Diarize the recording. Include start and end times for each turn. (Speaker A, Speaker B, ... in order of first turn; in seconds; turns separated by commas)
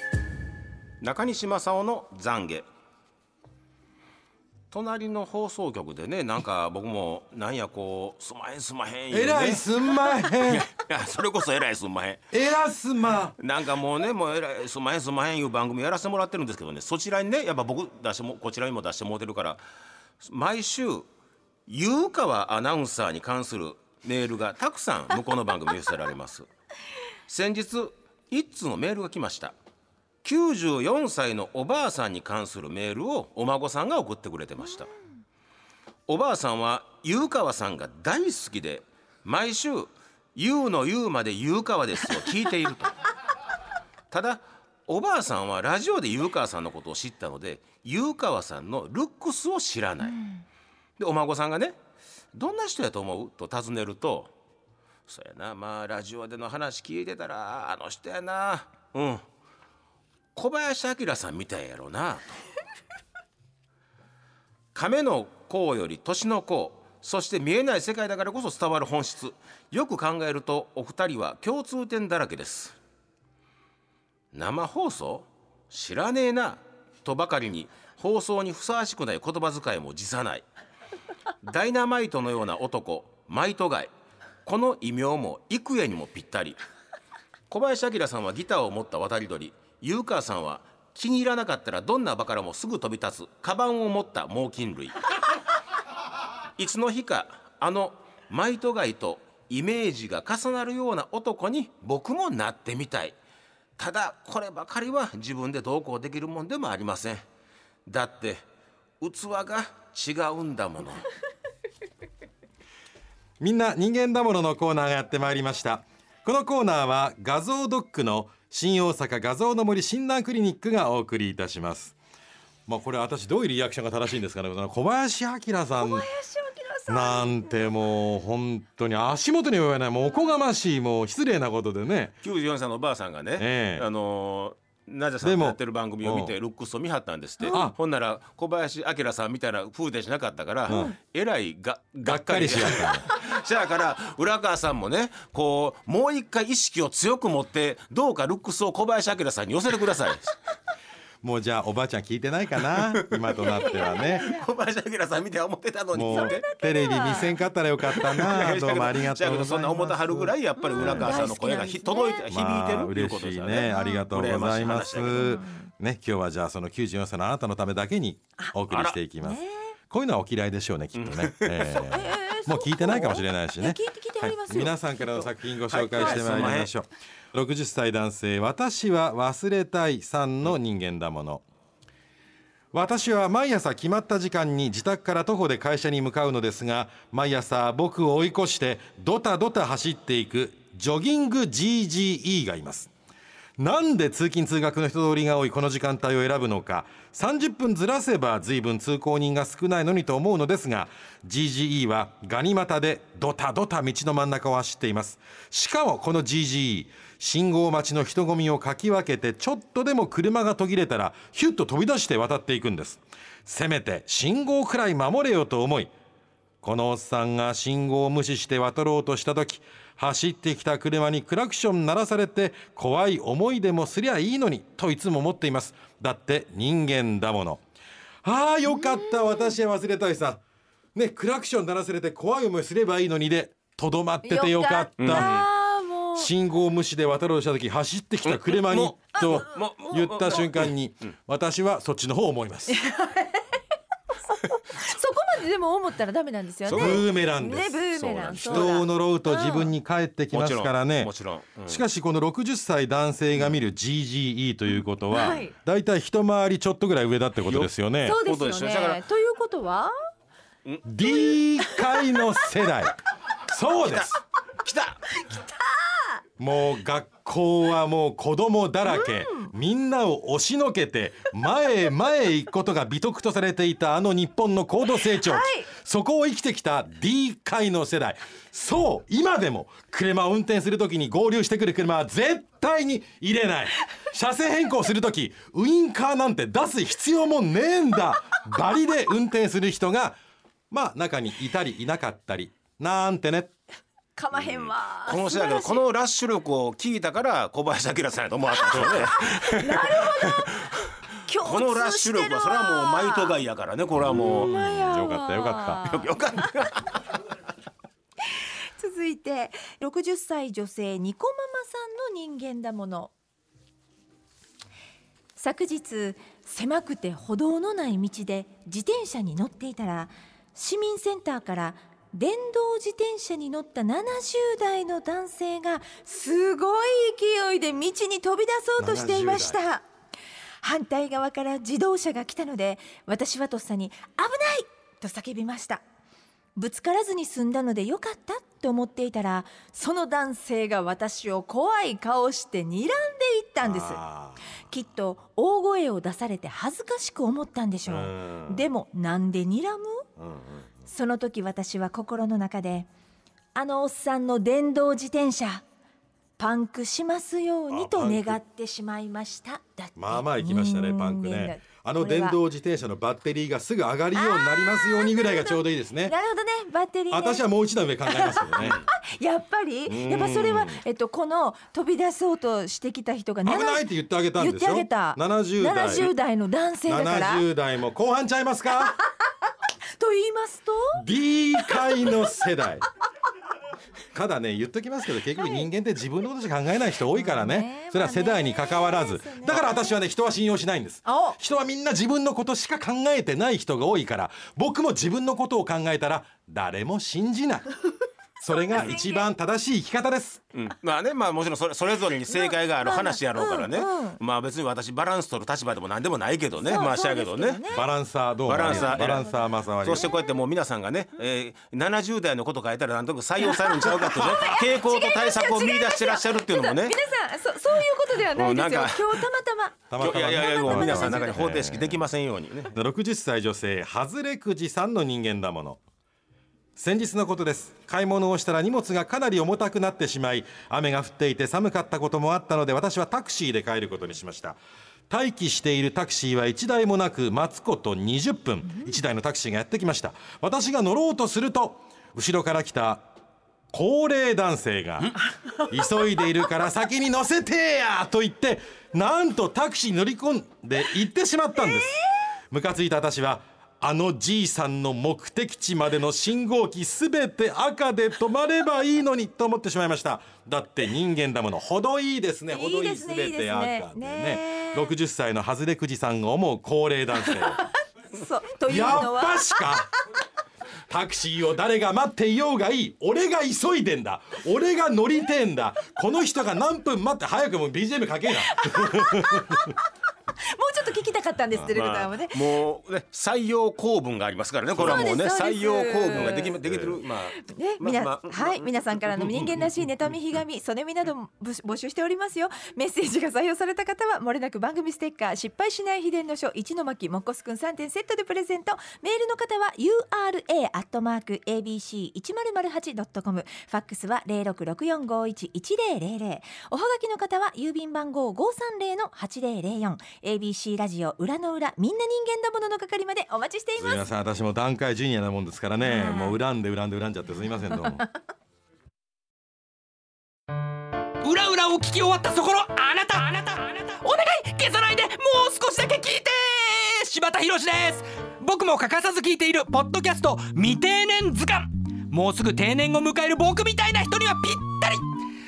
Speaker A: 1.0-2.7, Speaker A: 4.7-9.7, Speaker B: 9.1-10.7, Speaker A: 10.4-12.2, Speaker B: 12.3-13.3, Speaker A: 13.4-19.6, Speaker A: 20.2-21.1, Speaker A: 21.7-26.5, Speaker A: 27.3-29.6, Speaker A: 30.2-34.9, Speaker A: 36.1-42.9, Speaker A: 44.1-50.2, Speaker A: 51.0-51.8, Speaker A: 52.3-54.3, Speaker A: 55.1-59.2, Speaker A: 60.3-62.4, Speaker A: 64.7-72.8, Speaker A: 74.3-80.5, Speaker A: 81.4-83.9, Speaker A: 84.4-86.6, Speaker A: 87.5-95.0, Speaker A: 96.6-103.2, Speaker A: 103.8-107.2, Speaker A: 107.9-108.4, Speaker A: 109.0-111.1, Speaker B: 113.4-121.9, Speaker B: 122.7-126.1, Speaker C: 125.8-127.6, Speaker B: 126.9-132.1, Speaker A: 132.2-150.3, Speaker B: 133.4-133.8, Speaker B: 135.2-136.3, Speaker C: 137.4-137.7, Speaker B: 137.5-137.7, Speaker B: 140.7-140.9, Speaker B: 142.0-143.0, Speaker B: 151.2-154.3, Speaker A: 152.7-156.5, Speaker C: 153.4-154.3, Speaker B: 155.9-161.3, Speaker C: 156.1-157.4, Speaker A: 157.8-165.2, Speaker C: 160.6-162.3, Speaker B: 162.3-181.4, Speaker C: 163.5-164.1, Speaker C: 164.9-165.7, Speaker A: 168.7-169.0, Speaker C: 169.2-169.7, Speaker A: 170.9-171.8, Speaker C: 171.8-175.3, Speaker A: 175.7-176.7, Speaker B: 182.7-192.9, Speaker B: 193.6-215.9, Speaker B: 216.6-227.6, Speaker B: 228.2-230.4, Speaker C: 228.7-229.5, Speaker B: 230.9-235.4, Speaker C: 234.2-236.3, Speaker A: 235.0-235.5, Speaker B: 236.2-242.8, Speaker A: 238.2-240.7, Speaker C: 242.7-243.4, Speaker C: 244.5-249.7, Speaker A: 246.7-247.0, Speaker B: 246.7-247.8, Speaker A: 247.9-248.7, Speaker B: 248.4-251.1, Speaker A: 250.3-251.8, Speaker B: 251.7-258.2, Speaker C: 255.1-255.5, Speaker A: 257.4-257.7, Speaker C: 258.0-259.9, Speaker A: 258.2-259.0, Speaker B: 260.8-262.9, Speaker C: 261.3-262.2, Speaker B: 263.5-264.2, Speaker A: 263.8-265.2, Speaker C: 265.3-266.2, Speaker B: 266.4-290.2, Speaker C: 268.9-269.5, Speaker C: 275.1-275.7, Speaker B: 290.7-293.5, Speaker C: 294.1-295.8, Speaker A: 294.3-300.7, Speaker C: 298.7-303.4, Speaker B: 298.8-299.1, Speaker A: 301.4-304.5, Speaker B: 304.1-305.9, Speaker C: 304.1-306.1, Speaker A: 305.9-307.0, Speaker C: 308.8-313.1, Speaker C: 315.4-329.9, Speaker B: 328.8-329.6, Speaker C: 330.6-335.8, Speaker C: 336.6-344.0, Speaker B: 343.6-344.4, Speaker C: 344.7-350.1, Speaker B: 347.9-348.6, Speaker B: 350.2-350.7, Speaker C: 350.8-352.9, Speaker C: 353.5-355.6, Speaker C: 356.4-362.4, Speaker B: 357.7-358.4, Speaker B: 359.9-366.1, Speaker C: 364.1-367.4, Speaker B: 367.1-368.8, Speaker C: 368.1-377.4, Speaker B: 369.9-370.8, Speaker B: 373.4-376.1, Speaker B: 376.9-379.0, Speaker C: 380.0-381.0, Speaker B: 380.9-382.8, Speaker B: 384.1-397.7, Speaker C: 387.1-390.0, Speaker C: 391.0-391.4, Speaker B: 398.4-400.4, Speaker C: 398.5-399.3, Speaker A: 400.5-407.8, Speaker C: 402.3-404.2, Speaker C: 406.6-407.8, Speaker B: 407.7-410.1, Speaker A: 408.4-409.3, Speaker C: 408.6-410.3, Speaker A: 409.8-416.9, Speaker C: 413.5-421.3, Speaker B: 414.1-414.5, Speaker A: 418.2-419.3, Speaker B: 419.9-422.0, Speaker A: 420.0-422.7, Speaker B: 422.7-425.8, Speaker B: 426.8-443.1, Speaker B: 443.7-452.0, Speaker B: 452.5-467.6, Speaker C: 462.5-464.9, Speaker C: 467.3-467.6, Speaker C: 468.1-469.7, Speaker B: 468.6-469.9, Speaker B: 470.9-479.7, Speaker C: 478.5-479.7, Speaker C: 480.5-482.4, Speaker A: 481.6-489.6, Speaker B: 484.8-485.1, Speaker C: 484.8-486.6, Speaker B: 486.1-486.9, Speaker C: 487.4-514.1, Speaker B: 513.8-518.0, Speaker C: 515.8-516.4, Speaker D: 521.2-535.0